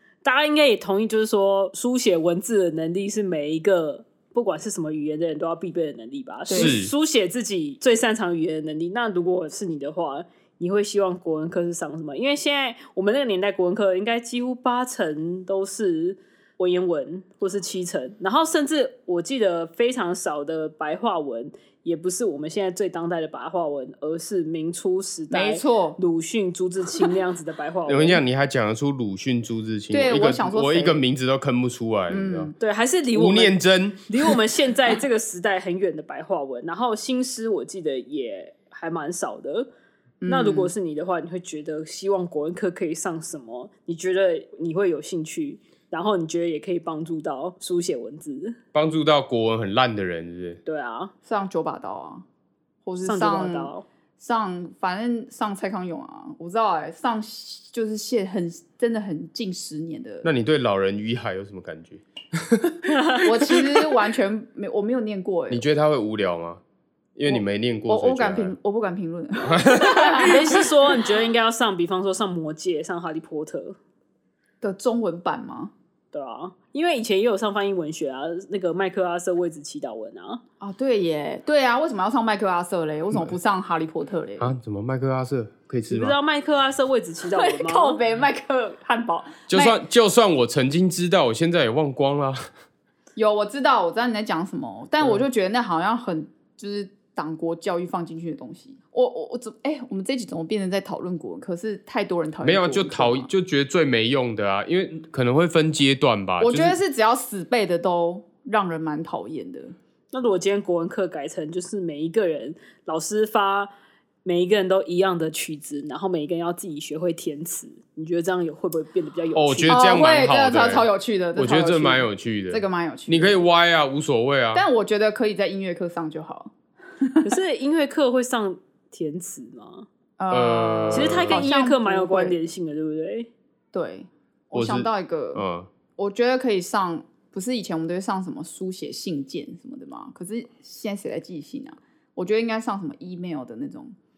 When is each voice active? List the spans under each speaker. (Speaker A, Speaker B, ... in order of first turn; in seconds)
Speaker A: 0.2-28.2, 32.6-39.7, 40.3-48.6, 50.6-51.1, 53.0-53.8, 62.9-63.3, 70.2-73.8, 76.1-80.4, 85.9-88.0, 110.1-113.7, 114.2-119.8, 127.2-129.9, 130.9-133.3
Speaker B: 6.5-6.8, 25.3-26.0, 29.9-31.0, 32.1-32.5, 40.2-40.7, 51.2-52.2, 52.8-60.3, 63.2-65.6, 67.3-70.6, 74.6-75.7, 80.6-84.5, 87.3-89.8, 93.2-103.3, 106.4-109.8, 119.7-123.5, 124.5-127.3, 130.2-132.4, 133.7-135.4, 136.0-143.9
Speaker C: 6.5-6.9, 27.9-32.5, 33.1-34.3, 48.7-50.6, 60.2-63.5, 65.5-66.6, 67.2-68.5, 69.5-70.5, 84.4-86.2, 89.5-92.4, 102.4-106.8, 119.3-124.6, 130.3-131.4, 134.5-135.7